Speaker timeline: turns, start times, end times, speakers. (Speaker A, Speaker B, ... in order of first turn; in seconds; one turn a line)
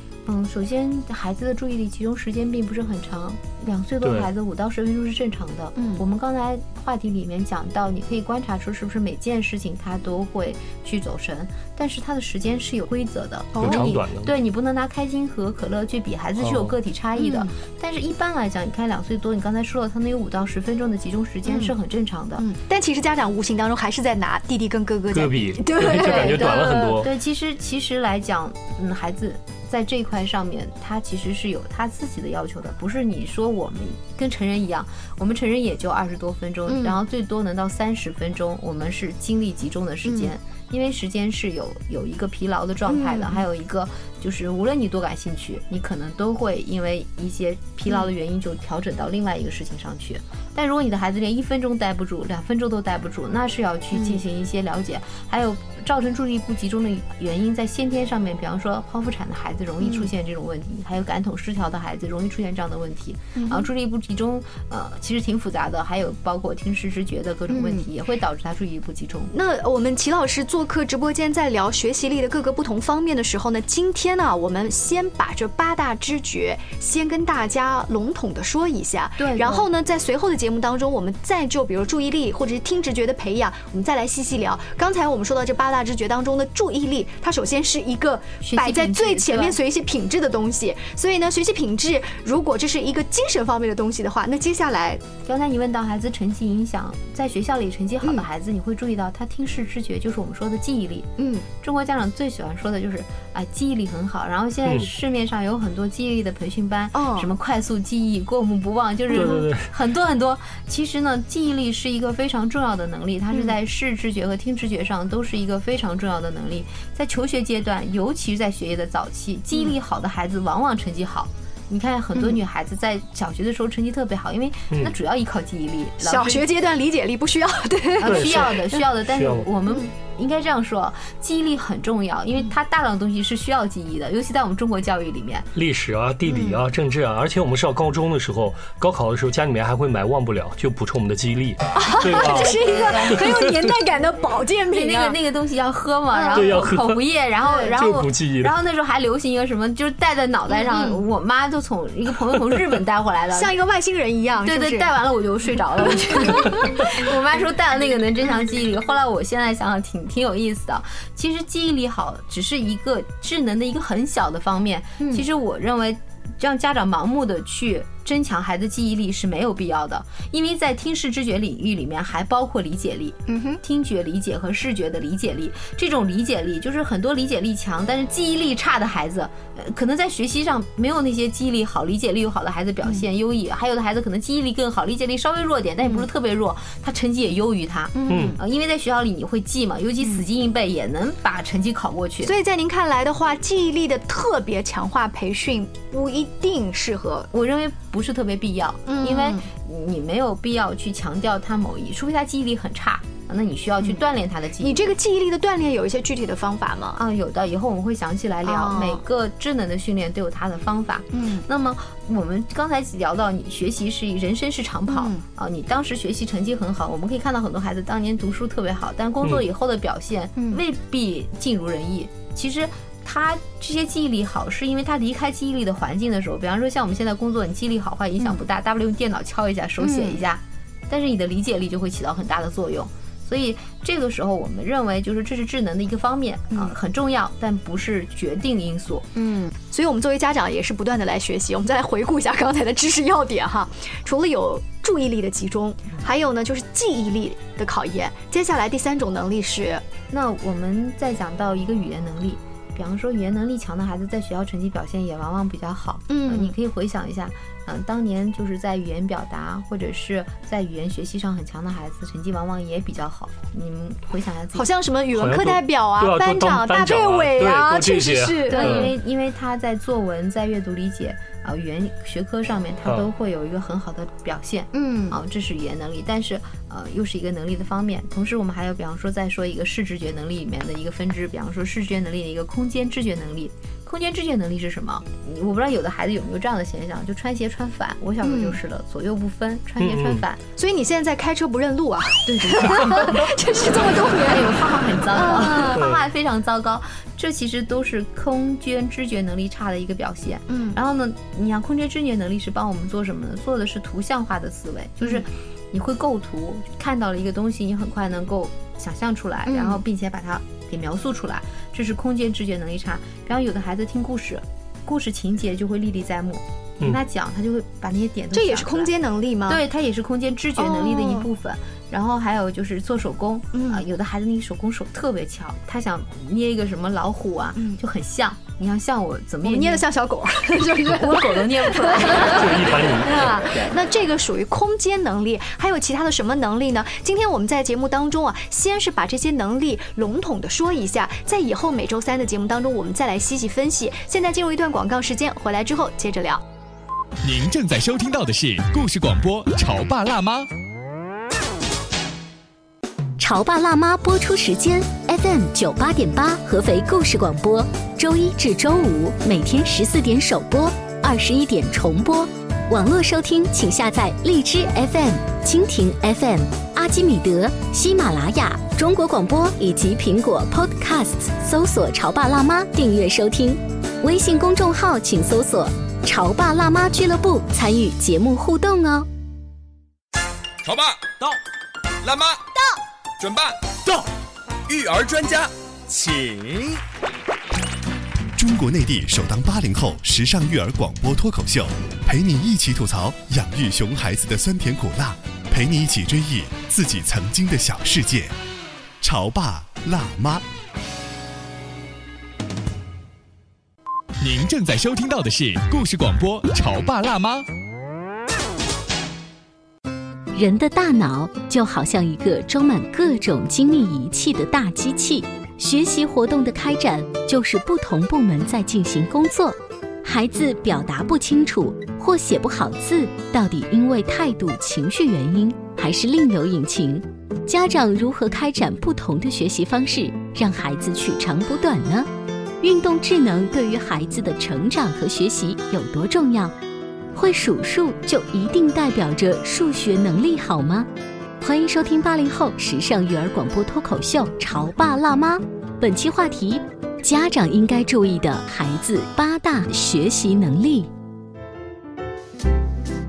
Speaker A: 0.3-22.5
Speaker B: 4.0-4.3
Speaker C: 5.8-6.0
Speaker C: 13.5-13.9
Speaker B: 13.6-14.3
Speaker B: 16.4-16.7
Speaker C: 17.2-17.5
Speaker C: 21.5-21.8
Speaker C: 22.4-26.7
Speaker B: 25.1-27.1
Speaker A: 25.8-69.3
Speaker C: 36.7-37.0
Speaker C: 40.0-40.3
Speaker C: 42.9-43.4
Speaker C: 53.9-54.2
Speaker C: 59.8-60.1
Speaker C: 63.4-63.7
Speaker C: 67.5-67.9
Speaker C: 69.3-95.0
Speaker A: 79.2-79.7
Speaker A: 88.4-89.6
Speaker A: 95.2-126.5
Speaker C: 101.2-101.5
Speaker C: 107.0-107.3
Speaker C: 109.1-109.4
Speaker B: 109.1-109.7
Speaker C: 126.0-128.8
Speaker A: 128.0-135.5
Speaker B: 128.0-128.5
Speaker B: 129.1-129.5
Speaker B: 135.6-142.6
Speaker C: 136.3-136.6
Speaker C: 141.8-145.2
Speaker A: 142.0-143.4
Speaker B: 143.2-143.5
Speaker A: 144.7-153.5
Speaker C: 146.1-146.7
Speaker B: 146.3-147.0
Speaker C: 147.4-147.8
Speaker B: 147.7-148.6
Speaker C: 150.5-151.0
Speaker C: 153.3-154.9
Speaker A: 154.4-192.4
Speaker C: 156.3-156.7
Speaker C: 165.0-165.2
Speaker C: 173.3-173.6
Speaker C: 187.9-188.4
Speaker B: 188.1-188.4
Speaker C: 192.2-197.3
Speaker A: 197.3-204.9
Speaker C: 198.9-199.4
Speaker C: 204.6-207.0
Speaker A: 207.0-239.2
Speaker C: 208.4-209.0
Speaker C: 211.1-211.4
Speaker C: 214.9-215.2
Speaker C: 220.4-220.6
Speaker C: 229.8-230.2
Speaker C: 239.2-249.8
Speaker A: 250.1-264.7
Speaker C: 256.1-256.6
Speaker C: 264.5-268.9
Speaker B: 265.1-268.9
Speaker A: 268.5-290.4
Speaker C: 274.7-275.2
Speaker C: 288.2-288.6
Speaker B: 289.8-290.2
Speaker C: 290.6-295.9
Speaker A: 292.3-293.3
Speaker A: 294.2-318.9
Speaker B: 295.8-296.0
Speaker C: 300.5-300.8
Speaker C: 309.5-309.8
Speaker C: 318.3-319.6
Speaker A: 319.5-329.9
Speaker C: 320.6-321.3
Speaker C: 323.5-323.8
Speaker C: 329.4-346.4
Speaker A: 330.9-332.9
Speaker B: 332.3-333.3
Speaker D: 347.2-350.5
Speaker E: 353.2-379.1
Speaker F: 380.6-381.4
Speaker F: 382.0-382.4
Speaker F: 383.2-384.1
Speaker F: 384.7-386.7
Speaker G: 388.4-398.4
Speaker G: 399.0-400.4
Speaker D: 404.2-407.5
Speaker E: 410.3-432.1
Speaker E: 432.6-436.6
Speaker E: 437.1-440.9
Speaker E: 441.4-450.9